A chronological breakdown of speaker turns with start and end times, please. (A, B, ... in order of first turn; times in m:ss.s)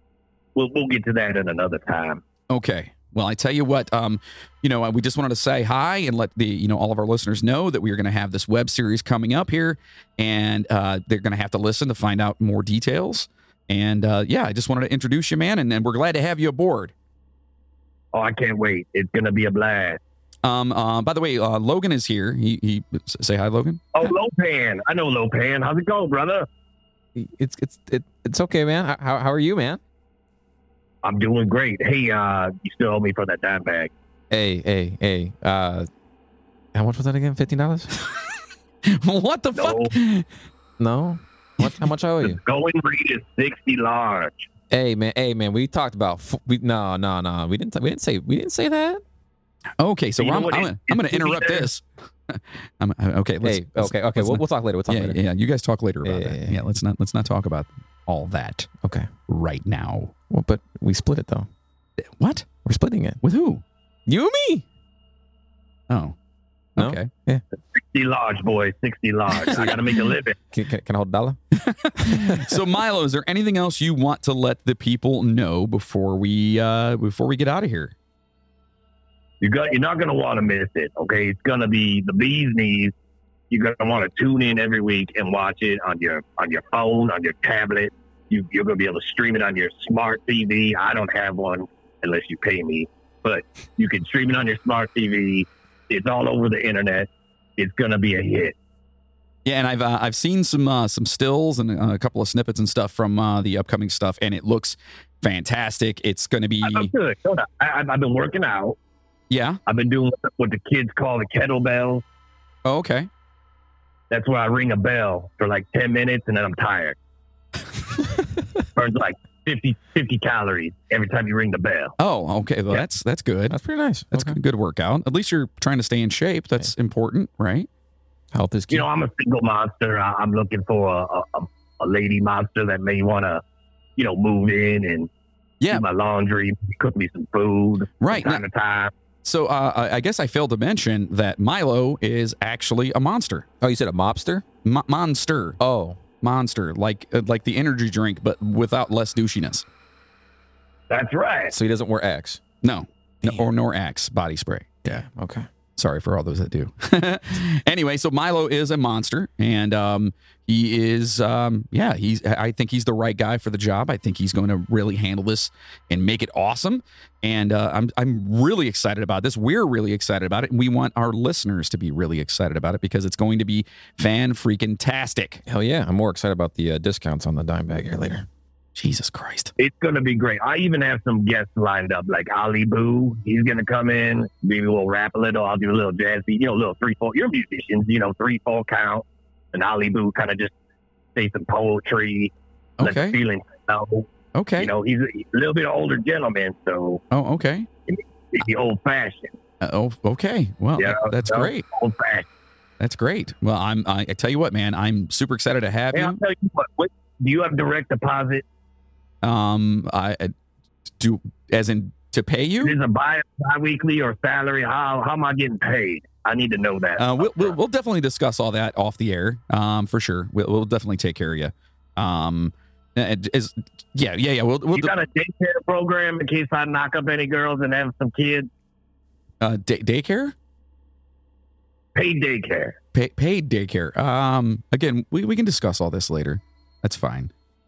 0:00.5-0:02.2 A
0:02.5-0:16.9 B
0:18.1-0:20.0 A
0:20.4-0:24.1 B
0:23.9-0:26.5 A
0:27.1-0:29.8 C
0:31.0-0:33.9 A
0:34.3-0:35.9 C
0:36.7-0:37.9 C
0:38.9-0:40.3 B
0:39.5-0:39.9 A
0:40.8-0:42.4 C
0:42.2-0:44.4 A
0:44.7-0:49.0 C
0:49.8-0:58.7 B
0:50.2-0:51.7 A
0:53.4-0:55.2 C
0:56.0-0:56.6 C
0:58.8-0:59.1 C
0:59.3-1:00.1 B
1:00.3-1:01.5 C
1:02.0-1:02.5 B
1:02.6-1:03.2 C
1:03.2-1:03.6 B
1:04.1-1:04.6 C
1:05.9-1:06.2 B
1:06.8-1:07.1 B
1:06.8-1:07.4 C
1:07.7-1:10.4 A
1:10.5-1:11.4 C
1:11.5-1:17.9 B
1:12.0-1:12.6 C
1:19.4-1:22.9 A
1:23.5-1:38.5 A
1:39.4-1:46.9 B
1:46.6-1:48.8 A
1:49.3-1:49.6 B
1:49.7-1:52.0 A
1:52.6-1:53.1 B
1:54.1-1:57.0 A
1:58.7-2:01.9 A
2:02.0-2:03.6 B
2:03.5-2:04.4 C
2:04.1-2:07.7 B
2:08.3-2:08.9 C
2:08.7-2:13.4 A
2:14.0-2:15.1 A
2:15.7-2:18.9 A
2:18.0-2:18.4 B
2:19.2-2:23.4 B
2:23.6-2:24.4 C
2:24.6-2:25.6 B
2:25.6-2:26.0 C
2:26.2-2:29.6 B
2:30.9-2:31.5 A
2:31.5-2:32.4 C
2:32.6-2:35.0 B
2:34.8-2:35.4 C
2:35.8-2:55.4 B
2:55.4-2:58.3 C
2:58.7-2:59.5 B
2:59.6-3:10.5 A
3:11.1-3:17.0 A
3:12.8-3:13.2 B
3:14.3-3:14.7 B
3:17.1-3:17.7 B
3:17.9-3:19.3 A
3:19.6-3:21.6 B
3:20.8-3:22.3 A
3:22.8-3:26.2 B
3:25.9-3:28.4 A
3:29.2-3:30.3 B
3:31.0-3:32.7 B
3:32.6-3:37.6 A
3:37.0-3:44.9 B
3:44.7-3:48.5 A
3:49.4-3:50.3 B
3:51.9-3:52.8 A
3:52.9-3:57.3 B